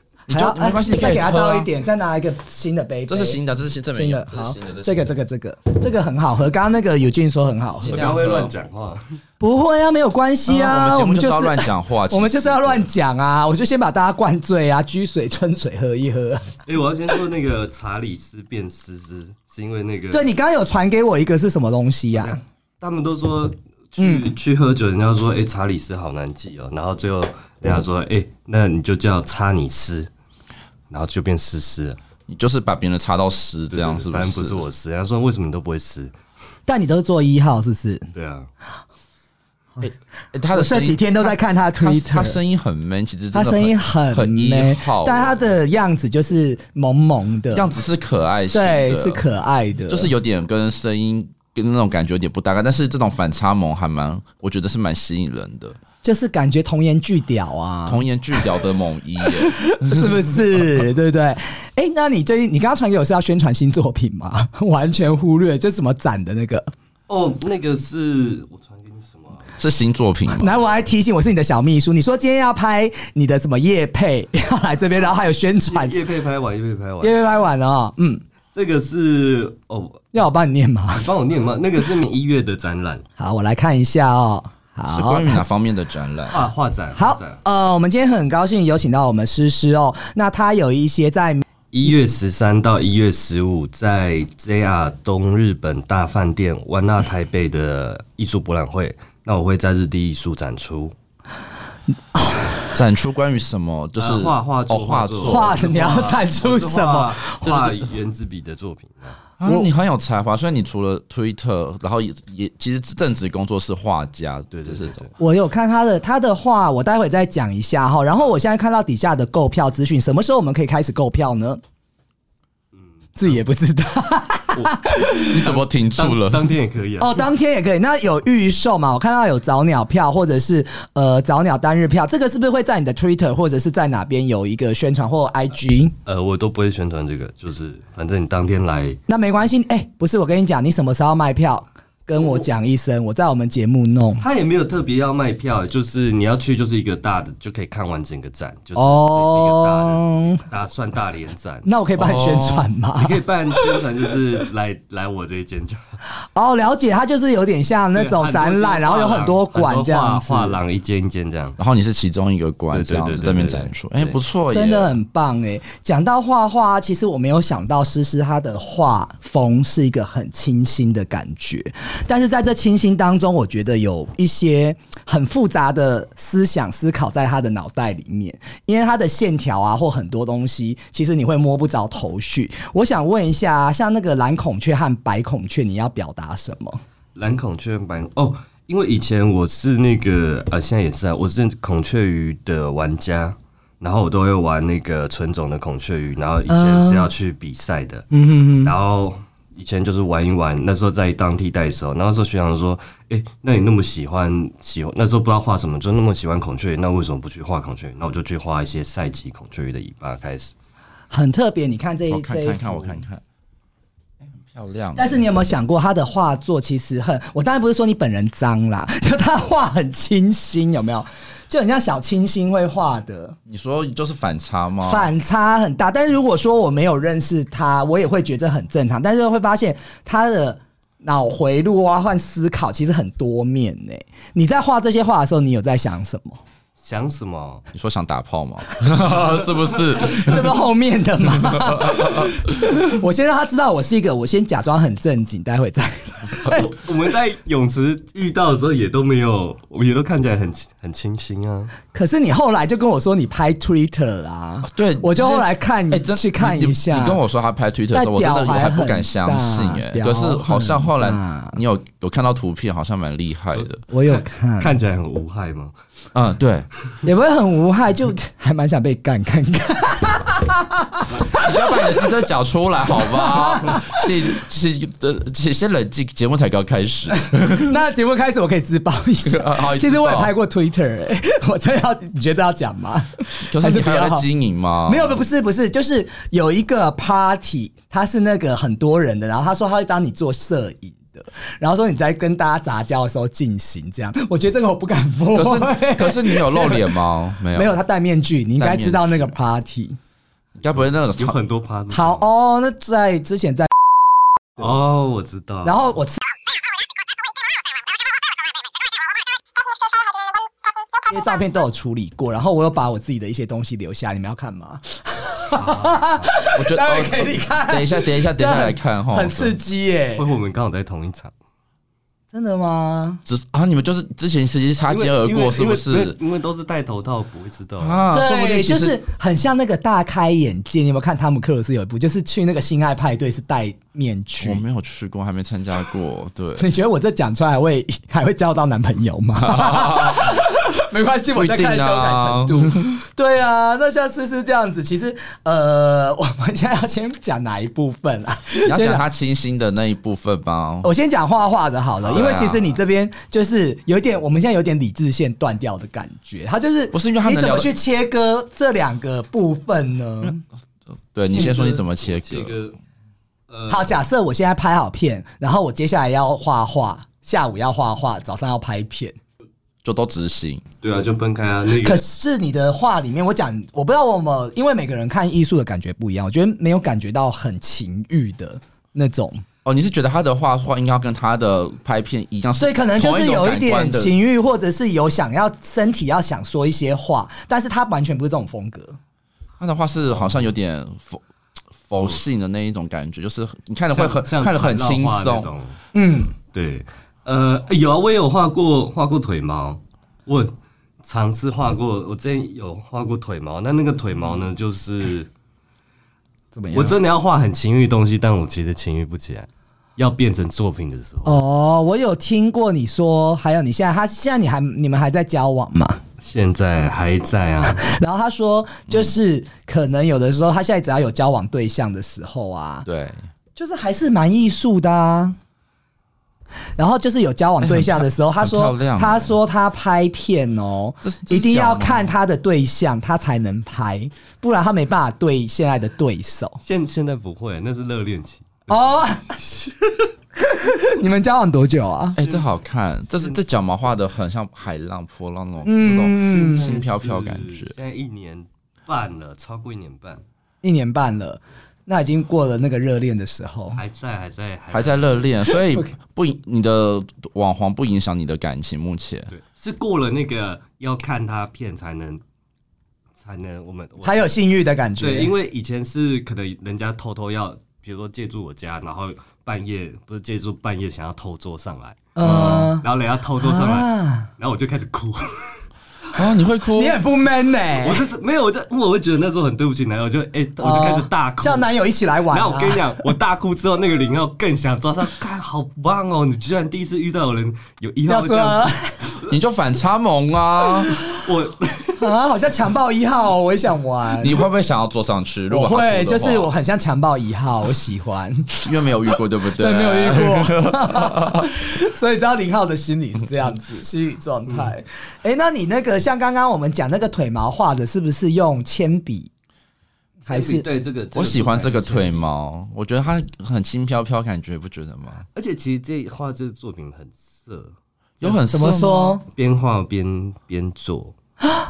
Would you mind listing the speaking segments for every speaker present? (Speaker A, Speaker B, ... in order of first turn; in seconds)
Speaker A: 0.3-1.7, 3.1-5.1, 7.8-8.5, 10.5-12.9, 32.3-34.6, 39.8-45.4, 47.5-49.2, 49.9-55.8, 57.9-60.2, 69.6-70.5, 84.9-86.4, 102.7-105.5, 107.5-107.8, 109.4-115.1, 125.3-126.5, 152.0-152.7, 161.6-165.0, 212.1-213.2, 214.2-215.2, 223.5-225.1, 237.7-240.6, 241.4-242.4, 254.6-263.8, 266.1-266.7, 271.2-277.7, 279.2-280.3, 283.5-285.2, 295.3-297.8, 298.6-299.3, 300.6-301.4, 316.6-319.6, 323.3-326.2, 327.8-329.0, 334.4-336.7, 339.4-340.4, 341.4-343.0, 348.6-350.9, 352.0-352.7, 356.9-357.7, 361.1-362.6, 369.8-370.6, 379.6-384.1, 389.6-391.2, 391.9-395.5, 422.9-423.3, 427.6-429.4, 431.0-432.1, 442.2-447.8, 454.7-459.3, 476.1-477.0, 489.3-490.9, 494.2-496.5, 498.6-501.5, 511.1-515.3, 518.2-519.2
Speaker B: 0.3-3.4, 3.9-8.0, 9.4-16.5, 20.1-22.4, 24.0-24.3, 36.7-38.1, 40.5-42.4, 43.3-47.7, 48.5-50.1, 56.0-58.5, 59.4-66.7, 70.3-76.0, 77.0-78.2, 80.1-81.1, 83.2-85.4, 87.0-91.4, 102.1-102.7, 105.2-107.5, 115.2-121.6, 123.2-125.4, 127.0-135.9, 139.1-144.2, 148.8-150.5, 151.7-153.2, 156.3-160.6, 164.5-186.8, 196.5-197.1, 198.1-198.7, 211.1-213.0, 215.0-223.4, 224.8-236.4, 240.0-246.6, 251.9-257.2, 257.9-261.6, 263.9-264.7, 267.0-271.9, 272.9-274.0, 277.4-284.3, 284.9-296.9, 297.5-300.0, 301.9-303.7, 305.6-306.2, 311.1-320.2, 322.3-323.2, 328.1-334.6, 336.6-349.0, 350.8-360.4, 363.7-369.2, 371.8-379.4, 382.6-389.0, 395.9-396.3, 406.5-407.0, 411.3-416.0, 417.8-422.9, 423.6-425.4, 426.8-436.6, 438.7-439.4, 440.4-442.2, 445.6-446.7, 450.6-453.8, 464.0-465.3, 472.2-472.9, 473.4-474.3, 476.7-478.1, 480.6-483.0, 488.1-489.0, 492.0-494.4, 495.5-498.7, 499.5-509.3, 510.3-510.6, 518.5-519.2
Speaker C: 7.8-9.0, 16.6-20.3, 22.1-30.1, 30.9-32.0, 33.7-36.1, 38.1-38.5, 67.1-69.5, 75.7-77.2, 78.5-80.0, 80.9-83.0, 86.3-87.4, 91.7-100.9, 104.0-109.2, 114.5-115.1, 125.3-127.3, 136.1-139.0, 144.2-151.7, 153.0-156.0, 157.9-161.6, 162.7-164.2, 187.2-210.5, 236.8-237.6, 246.5-251.8, 263.6-265.7, 300.6-302.3, 304.6-305.9, 315.6-316.3, 320.2-321.3, 324.9-328.1, 361.3-362.8, 363.5-364.0, 370.8-372.0, 393.9-395.8, 396.5-405.3, 406.7-411.4, 416.2-417.9, 436.6-440.1, 442.2-442.6, 443.1-443.5, 446.2-450.2, 453.8-455.2, 459.3-462.2, 463.2-464.3, 465.0-475.6, 477.8-481.7, 482.3-489.4, 491.1-492.1, 510.2-512.2, 515.4-518.4, 519.3-521.1